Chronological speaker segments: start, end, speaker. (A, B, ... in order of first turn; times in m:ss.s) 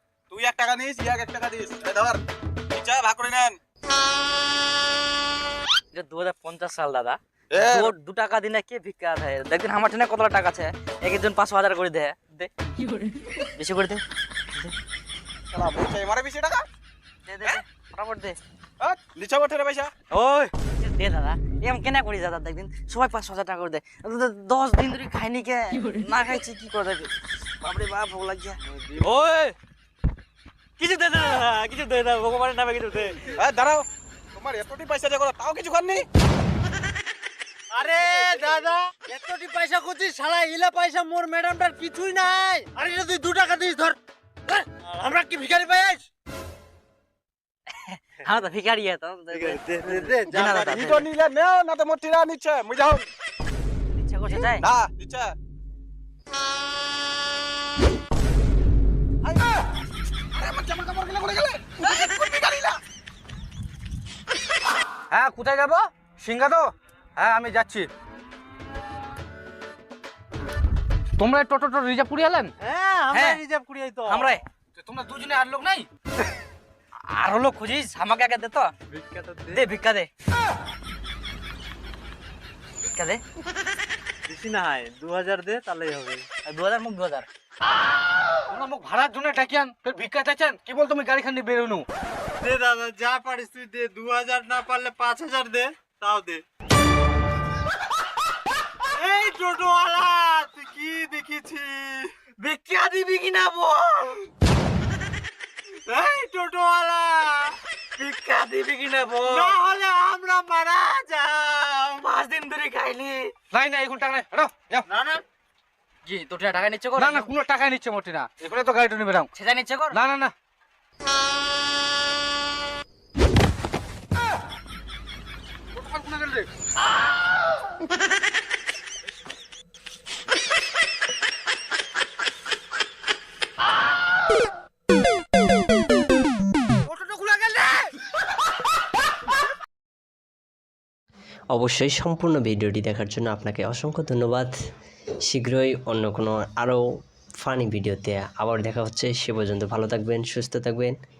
0:00.3-0:02.2 A
0:02.7-0:03.6 A
0:05.9-0:12.5 B
0:07.5-0:07.9 A
0:13.6-0:14.0 B
0:15.5-0:16.6 A
0:17.3-0:18.4 B
0:18.8-0:19.9 A
0:20.1-0:29.5 B
0:28.7-0:29.0 C
0:30.8-0:33.3 B
0:33.4-0:36.0 A
0:37.7-0:44.0 C
0:44.5-0:46.0 C
0:47.9-0:51.1 B
0:49.3-0:50.9 C
0:50.3-0:53.0 A
0:54.0-0:54.6 B
0:54.6-0:55.3 A
0:59.2-0:59.5 A
1:00.3-1:02.8 A
1:05.1-1:07.9 D
1:11.2-1:12.5 D
1:12.6-1:14.4 C
1:13.1-1:13.4 B
1:14.1-1:14.4 B
1:14.8-1:15.9 D
1:17.1-1:18.7 B
1:18.9-1:19.6 C
1:19.5-1:20.1 B
1:22.8-1:23.2 B
1:24.3-1:26.2 C
1:26.4-1:27.2 B
1:28.5-1:31.8 D
1:32.4-1:36.4 C
1:39.0-1:44.3 C
1:45.9-1:48.4 C
1:48.0-1:49.2 B
1:48.9-1:52.8 C
1:52.4-1:53.2 B
1:53.5-1:54.9 D
1:54.9-1:55.2 C
1:56.0-1:57.3 B
1:56.9-1:59.3 D
1:59.4-2:00.0 B
1:59.9-2:00.3 D
2:05.7-2:06.5 D
2:16.9-2:17.8 D
2:21.5-2:24.5 E
2:25.2-2:26.8 E
2:27.4-2:31.0 E